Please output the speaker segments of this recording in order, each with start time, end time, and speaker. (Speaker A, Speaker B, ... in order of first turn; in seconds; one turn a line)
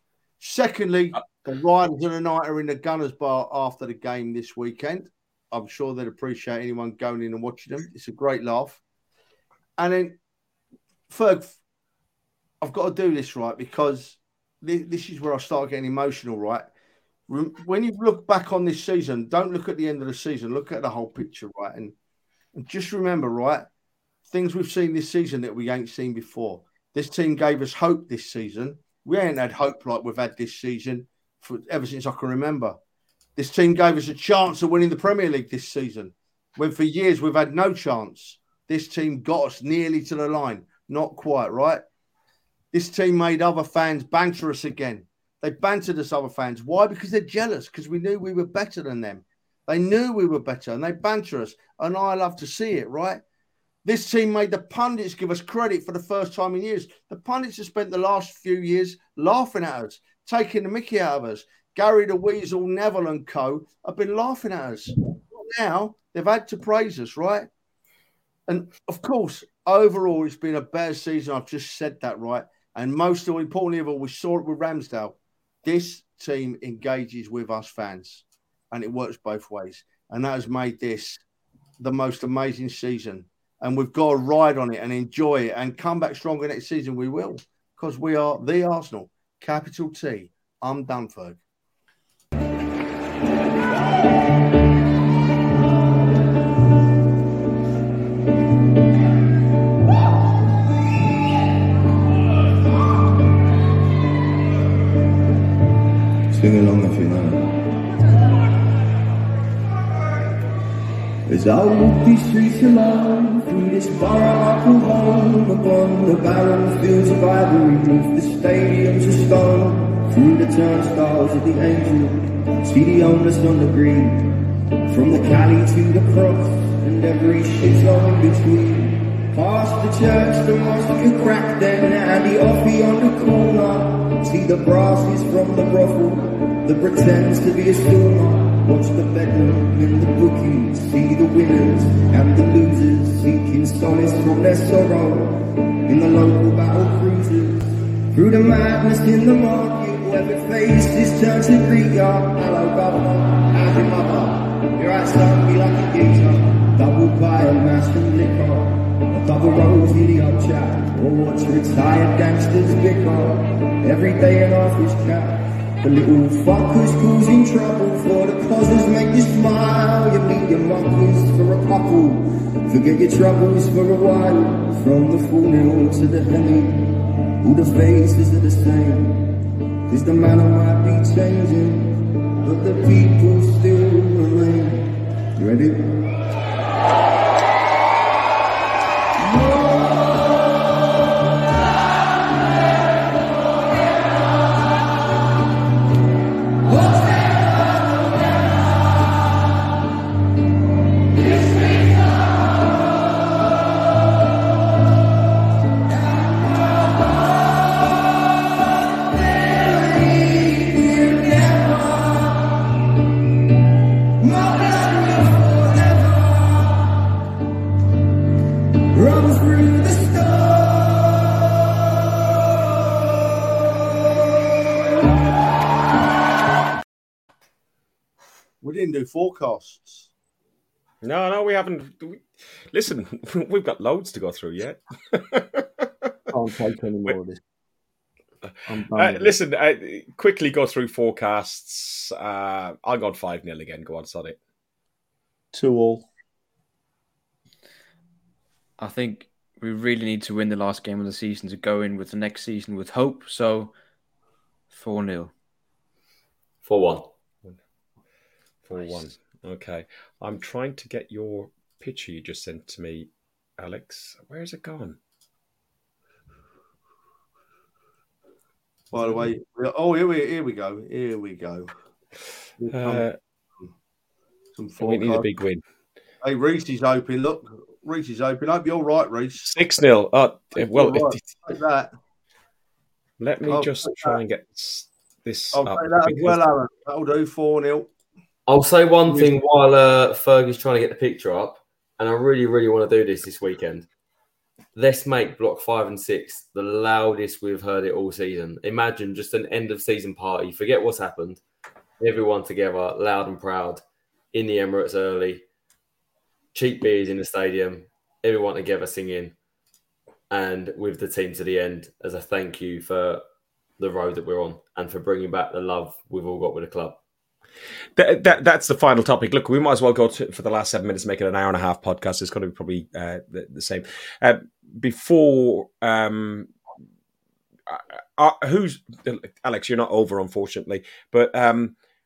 Speaker A: 0.4-8.8
Speaker A: 9.8-10.2
Speaker A: 11.1-11.6
Speaker A: 12.6-16.7
Speaker A: 17.3-21.9
Speaker A: 22.5-23.7
Speaker A: 24.3-32.8
Speaker A: 33.4-41.8
Speaker A: 42.7-53.2
Speaker A: 53.8-67.5
Speaker A: 68.5-81.2
Speaker A: 81.8-91.4
Speaker B: 106.3-107.4
Speaker B: 111.3-124.3
Speaker B: 124.9-147.6
Speaker B: 148.1-176.9
Speaker B: 177.4-179.2
Speaker B: 179.9-185.9
Speaker B: 189.2-190.7
Speaker B: 196.7-198.6
Speaker B: 206.2-208.0
Speaker B: 208.5-212.6
Speaker B: 214.2-216.9
Speaker B: 218.9-221.3
Speaker A: 228.6-230.1
Speaker C: 231.0-236.1
Speaker A: 236.3-237.4
Speaker A: 238.7-239.3
Speaker C: 238.9-244.4
Speaker A: 245.5-246.1
Speaker D: 248.8-253.7
Speaker D: 254.7-255.3
Speaker E: 256.6-257.1
Speaker C: 258.7-265.0
Speaker A: 268.9-271.7
Speaker C: 268.9-269.2
Speaker A: 272.6-273.1
Speaker C: 272.7-273.1
Speaker A: 274.5-275.3
Speaker C: 274.8-275.6
Speaker A: 276.2-279.5
Speaker C: 279.4-281.3
Speaker A: 280.5-281.9
Speaker C: 283.2-286.4
Speaker A: 283.4-284.2
Speaker A: 285.5-287.9
Speaker E: 288.5-293.9
Speaker A: 289.1-289.4
Speaker E: 294.7-301.4
Speaker E: 302.0-303.8
Speaker E: 304.3-305.4
Speaker E: 306.5-309.3
Speaker E: 310.3-313.2
Speaker E: 313.8-317.0
Speaker C: 318.0-326.5
Speaker C: 327.7-331.7